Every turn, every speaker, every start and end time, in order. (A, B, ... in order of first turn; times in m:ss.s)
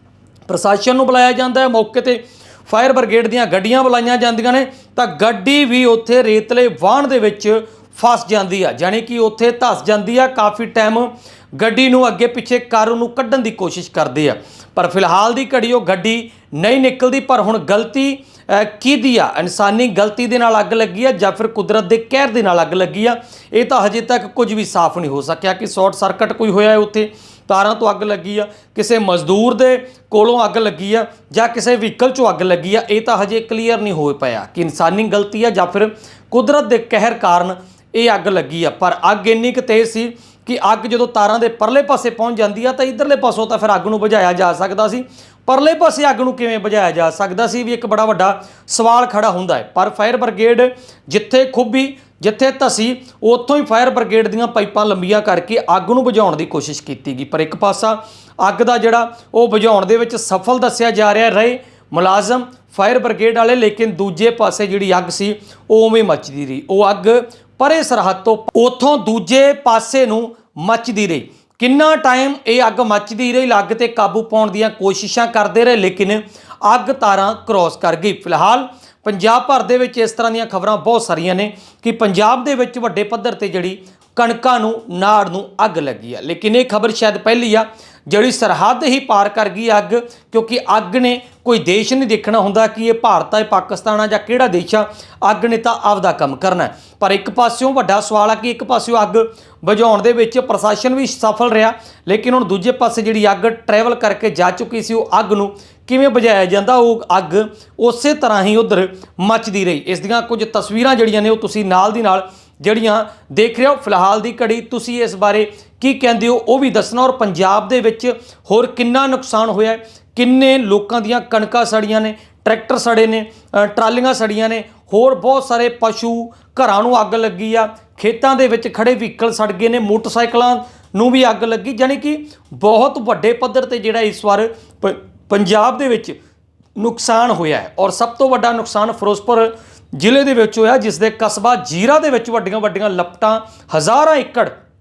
0:00.5-2:16.2 A
2:16.8-2:24.5 A